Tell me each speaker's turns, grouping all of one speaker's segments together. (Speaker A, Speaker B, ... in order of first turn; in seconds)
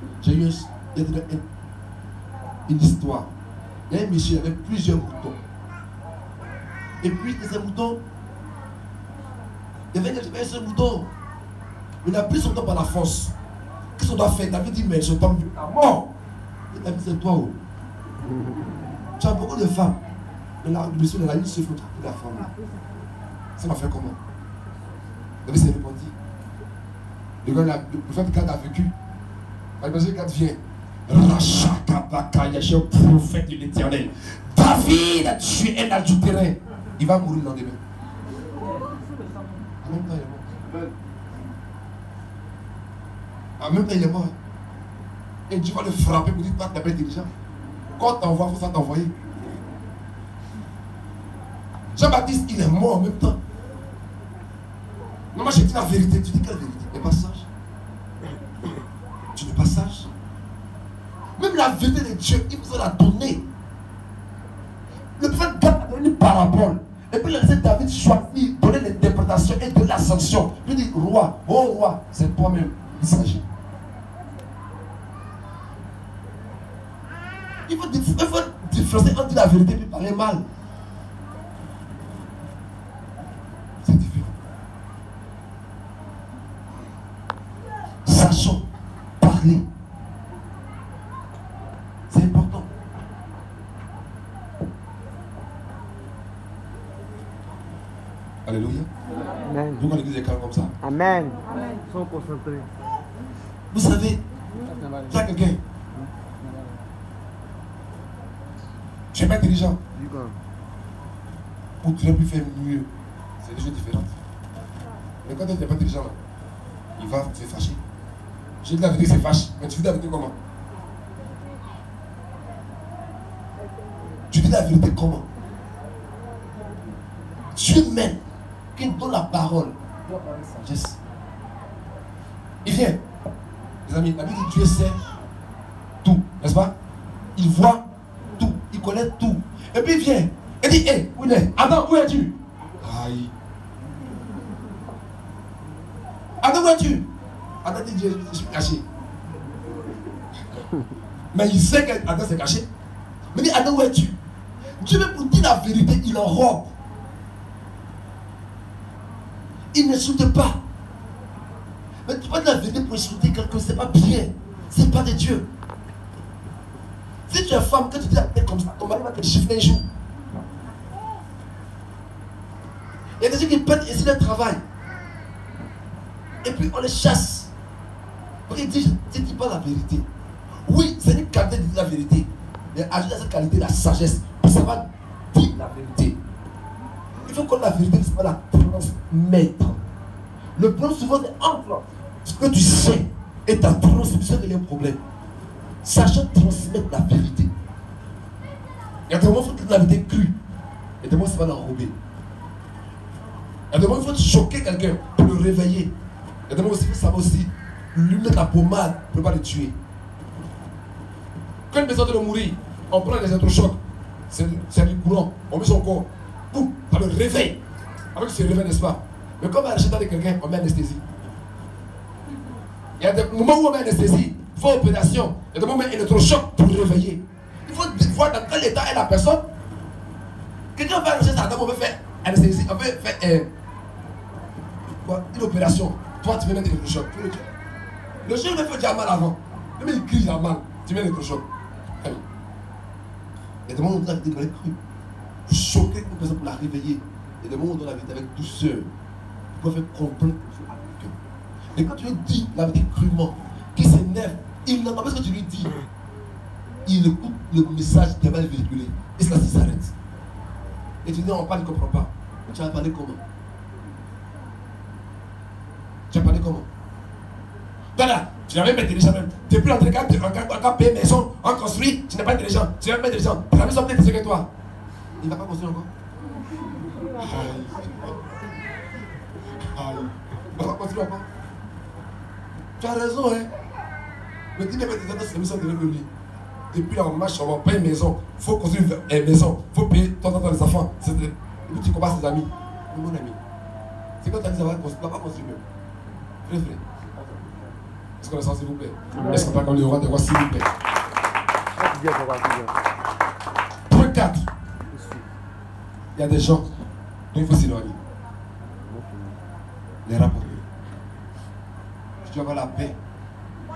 Speaker A: 0.2-1.4, 2.7-3.3, 3.9-5.4, 7.0-8.0, 9.9-11.1, 12.0-13.3, 13.9-16.1, 16.7-17.5, 19.2-20.0, 20.6-22.5, 23.6-24.2, 25.4-26.1, 27.4-28.9, 29.8-37.8, 39.8-40.4, 43.6-44.3, 45.5-47.3, 48.0-49.1, 52.0-53.4, 55.3-57.5, 59.3-60.1, 61.4-63.4, 65.2-73.4, 77.7-80.4, 83.8-84.3, 88.0-88.6, 89.2-89.7, 92.1-92.7, 98.5-98.9, 99.8-100.7, 103.7-104.2, 105.1-105.6, 109.1-109.8, 111.8-112.9, 113.4-114.1, 115.2-116.2, 117.0-117.8, 118.6-120.3, 124.3-125.2, 127.5-128.2, 128.7-129.8, 130.4-131.0, 132.6-133.0, 133.8-135.1, 136.0-136.7, 137.3-137.8, 138.4-143.3, 146.4-147.0, 147.6-148.8, 151.3-152.7, 153.3-154.1, 154.8-156.7, 159.7-160.6, 162.1-165.4, 167.3-169.8, 173.2-174.6, 176.4-177.5, 178.5-180.1, 180.7-186.2, 187.2-189.8, 190.6-195.0, 195.8-197.5, 199.1-200.3, 201.0-201.9, 203.7-205.9, 206.5-209.7, 211.7-213.8, 214.3-217.6, 218.1-221.0, 223.0-229.4, 230.7-233.5, 234.9-237.5, 238.2-241.4, 243.7-244.8, 245.5-248.9, 249.5-251.1, 251.7-255.7, 256.9-259.9, 261.0-263.2, 266.1-266.7, 267.9-274.5, 275.2-275.9, 277.2-278.1, 279.6-281.3, 282.8-283.5, 284.6-286.1, 286.7-293.4, 294.2-295.6, 296.4-296.8, 298.2-300.7, 303.9-304.5, 306.1-306.7, 307.3-308.0, 310.1-310.6, 312.2-313.0
Speaker B: 99.4-99.9, 100.8-102.7, 104.6-105.1, 106.0-106.5, 109.9-110.4, 299.1-299.6, 301.7-302.9, 304.9-305.2, 308.9-309.4